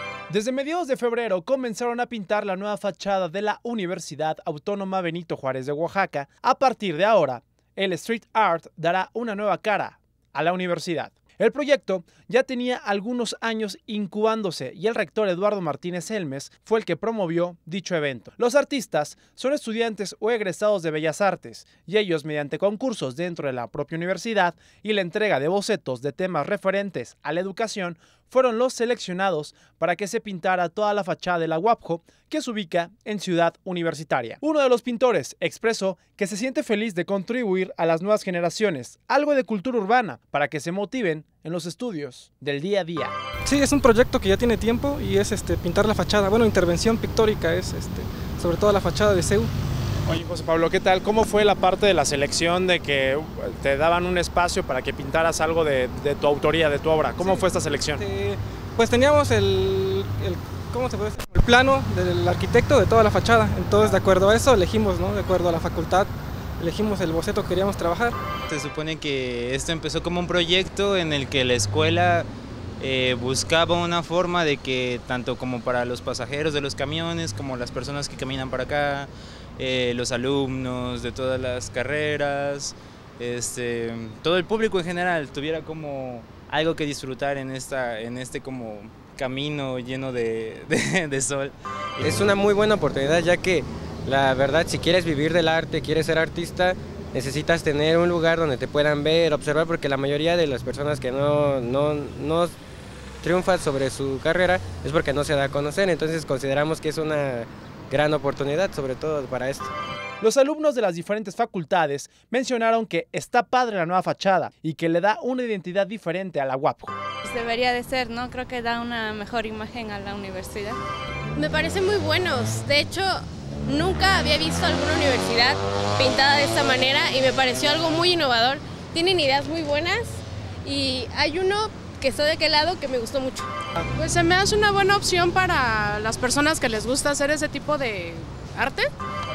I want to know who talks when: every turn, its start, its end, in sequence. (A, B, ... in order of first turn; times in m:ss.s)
0:00.3-0:43.1 A
0:43.5-0:49.5 B
0:50.1-0:58.0 A
0:57.2-1:08.2 B
1:08.5-1:12.3 C
1:12.8-1:32.3 C
1:32.0-1:42.5 D
1:43.2-1:49.7 D
1:50.2-1:57.0 A
1:57.2-2:00.8 E
2:01.4-2:14.2 F
2:14.0-2:18.9 G
2:14.8-2:15.5 F
2:17.0-2:17.3 F